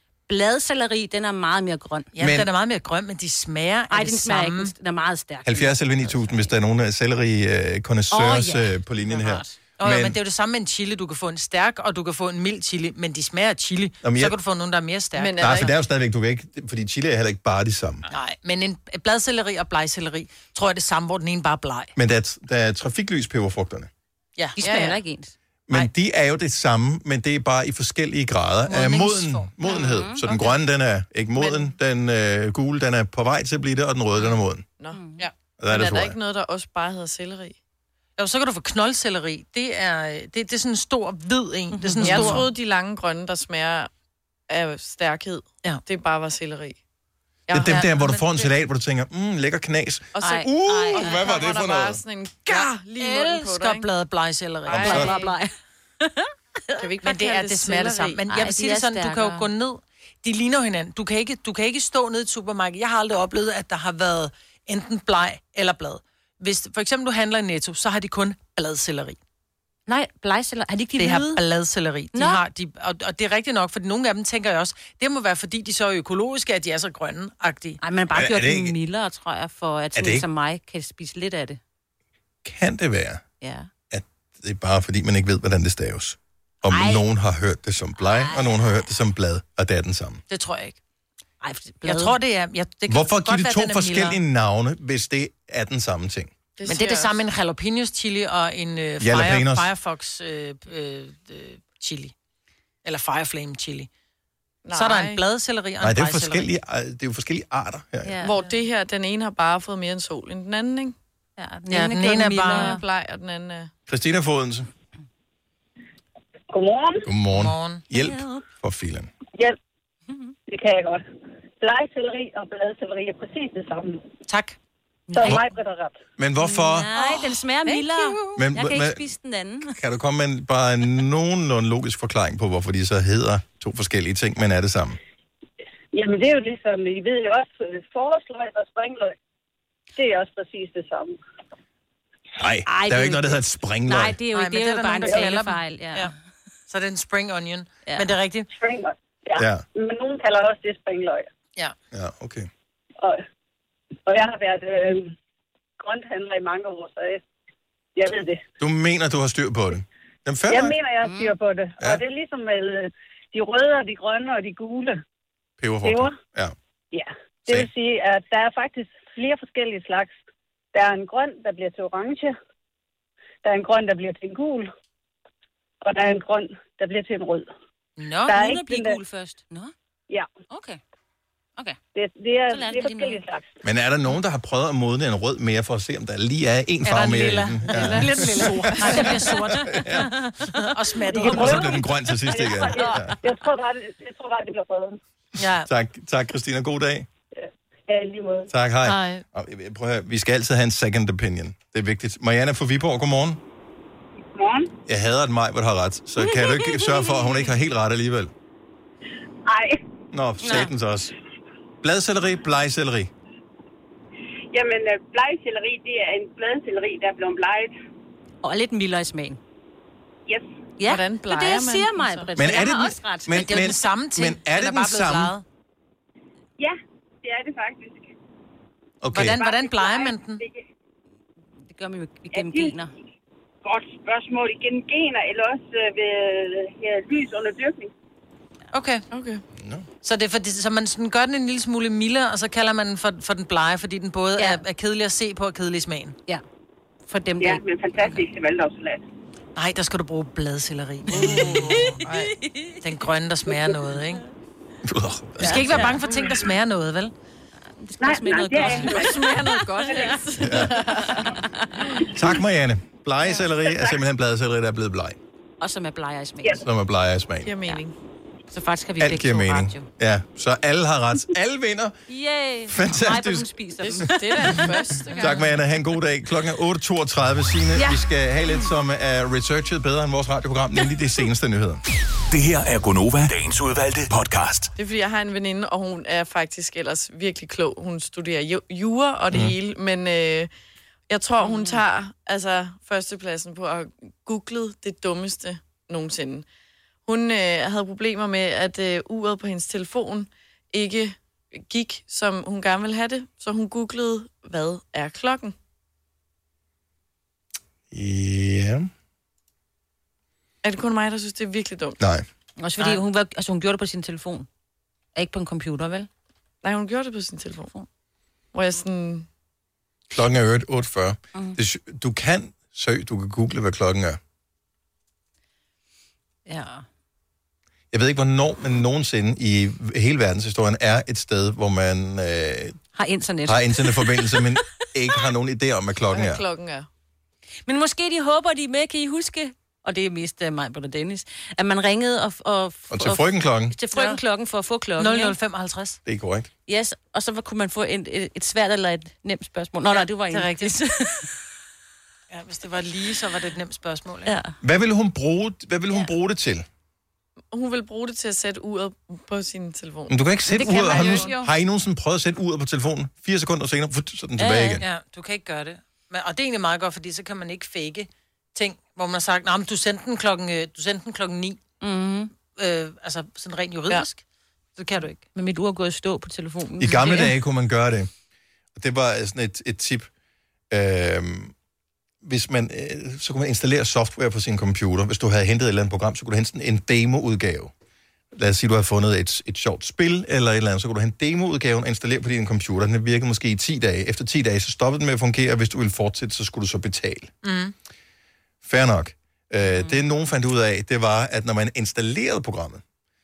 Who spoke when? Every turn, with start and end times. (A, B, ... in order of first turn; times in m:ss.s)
0:00.3-0:02.1 A
0:02.1-0:04.7 B
0:02.2-0:02.5 C
0:03.9-0:06.5 A
0:05.4-0:10.2 C
0:08.1-0:09.6 A
0:09.8-0:15.7 B
0:14.0-0:14.4 C
0:15.2-0:15.7 D
0:15.4-0:18.1 C
0:18.1-0:21.9 B
0:22.0-0:23.9 C
0:24.6-0:25.3 A
0:24.6-0:25.0 D
0:25.7-0:34.7 C
0:28.7-0:29.5 B
0:29.6-0:30.4 A
0:34.9-0:35.3 A
0:35.6-0:36.2 C
0:35.7-0:37.6 D
0:38.2-0:42.5 B
0:41.7-0:42.5 A
0:42.0-0:43.9 D
0:44.5-0:46.8 D
0:47.5-0:47.9 D
0:47.5-0:52.0 C
0:50.2-0:53.9 D
0:50.2-0:51.3 A
0:53.0-0:55.1 B
0:54.7-0:55.3 D
0:54.7-0:56.3 A
0:54.7-0:55.1 C
0:56.8-0:58.2 D
0:57.0-1:09.2 B
0:58.3-0:59.5 A
1:09.9-1:11.4 A
1:11.0-1:17.8 B
1:12.1-1:12.4 A
1:17.8-1:21.6 A
1:18.1-1:18.8 C
1:20.0-1:20.3 C
1:22.4-1:23.2 C
1:23.4-1:23.7 A
1:23.9-1:30.2 C
1:26.7-1:27.0 A
1:28.0-1:28.8 A
1:30.3-1:30.8 B
1:31.4-1:32.2 A
1:31.8-1:34.2 B
1:32.9-1:36.3 C
1:36.6-1:37.1 D
1:36.7-1:42.1 B
1:39.0-1:39.7 C
1:42.8-1:43.9 B
1:44.6-1:45.2 D
1:44.7-1:46.5 B
1:45.8-1:48.2 C
1:48.0-1:48.5 A
1:48.2-1:51.0 D
1:51.4-1:52.8 A
1:51.7-1:52.8 B
1:52.5-1:53.7 D
1:53.9-1:54.7 C
1:56.5-1:57.1 E
1:57.0-1:59.1 C
1:57.3-1:57.8 B
1:57.9-1:58.4 A
2:00.5-2:01.0 E
2:01.6-2:04.0 E
2:04.3-2:04.6 B
2:05.1-2:05.4 A
2:05.1-2:06.0 E
2:06.2-2:06.9 C
2:06.4-2:09.8 A
2:07.0-2:08.0 B
2:08.4-2:09.0 C
2:09.6-2:15.0 C
2:15.9-2:19.2 E
2:20.0-2:21.2 E
2:22.4-2:24.2 C
2:22.6-2:26.1 A
2:24.3-2:26.1 B
2:26.7-2:28.5 B
2:28.5-2:31.3 E
2:29.4-2:29.6 C
2:31.9-2:32.5 C
2:34.1-2:35.1 E
2:35.8-2:37.2 E
2:38.0-2:38.4 E
2:38.6-2:40.8 C
2:40.5-2:45.0 E
2:41.0-2:41.4 A
2:45.6-2:46.6 C
2:45.8-2:46.2 E
2:46.9-2:50.1 E
2:50.7-2:52.4 E
2:53.4-2:54.7 E
2:55.8-2:57.5 E
2:58.0-2:58.4 B
2:58.3-2:59.0 E
2:58.3-2:59.7 A
3:00.5-3:00.8 A
3:02.0-3:03.4 E
3:02.5-3:03.2 A
3:03.6-3:08.2 C
3:06.8-3:11.7 B
3:07.7-3:09.1 D
3:08.9-3:10.1 A
3:09.7-3:10.1 C
3:11.2-3:13.2 C
3:11.2-3:15.0 E
3:11.3-3:11.7 A
3:15.4-3:15.7 B
3:15.7-3:17.1 C
3:17.4-3:18.5 E
3:18.5-3:23.4 C
3:18.8-3:19.2 B
3:24.4-3:24.7 E
3:24.9-3:28.3 C
3:26.2-3:27.5 A
3:30.1-3:31.1 C
3:30.4-3:30.7 A
3:31.8-3:33.1 C
3:38.4-3:39.4 A
3:40.8-3:43.7 A
3:40.9-3:42.3 D
3:42.4-3:45.3 C
3:43.3-3:45.4 B
3:49.0-3:49.4 C
3:49.1-3:50.4 B
3:51.7-3:52.9 A
3:58.7-3:59.1 B
3:59.1-3:59.4 D
3:59.6-3:59.8 C
4:00.0-4:06.2 B
4:04.4-4:04.6 A
4:07.1-4:08.3 A
4:08.0-4:08.2 E
4:09.6-4:12.0 B
4:11.1-4:12.8 A
4:11.2-4:12.4 D
4:12.8-4:14.2 B
4:14.8-4:15.9 C
4:15.4-4:16.0 A
4:15.4-4:17.1 B
4:17.8-4:21.9 A
4:18.1-4:19.0 E
4:18.7-4:21.3 D
4:20.4-4:20.7 C
4:22.1-4:25.2 C
4:25.6-4:26.7 A
4:26.6-4:27.5 C
4:27.4-4:28.0 D
4:28.5-4:29.9 A
4:29.0-4:32.0 C
4:32.1-4:35.4 A
4:32.7-4:33.5 C
4:33.8-4:35.5 D
4:35.2-4:41.8 C
4:37.7-4:38.7 A
4:42.3-4:44.7 F
4:44.8-4:50.5 D
4:51.1-4:56.5 D
4:57.1-5:05.6 D
5:07.9-5:08.9 C
5:10.6-5:12.0 D
5:12.0-5:12.3 C
5:12.6-5:14.5 A
5:12.8-5:13.0 B
5:15.2-5:16.1 A
5:16.6-5:17.7 D
5:18.5-5:19.3 D
5:20.1-5:24.2 C
5:26.5-5:26.8 A
5:27.9-5:32.8 C
5:32.9-5:34.6 A
5:33.5-5:36.4 C
5:36.1-5:36.9 D
5:37.6-5:45.4 A
5:42.9-5:43.8 C
5:43.9-5:44.2 B
5:45.0-5:46.0 B
5:46.1-5:46.5 C
5:46.7-5:51.3 A
5:49.9-5:50.8 B
5:52.3-5:54.4 B
5:54.3-5:54.6 A
5:54.6-5:56.7 C
5:57.5-6:01.3 D
6:00.1-6:04.8 C
6:00.5-6:01.5 A
6:04.4-6:04.8 A
6:04.8-6:11.6 B
6:11.8-6:12.3 A
6:12.5-6:14.2 B
6:14.8-6:15.2 B
6:15.3-6:17.3 A
6:16.8-6:18.1 C
6:18.8-6:20.1 C
6:20.7-6:21.5 C
6:22.2-6:27.7 C
6:28.3-6:37.3 C
6:37.4-6:37.7 B
6:38.6-6:42.8 C
6:39.6-6:40.0 A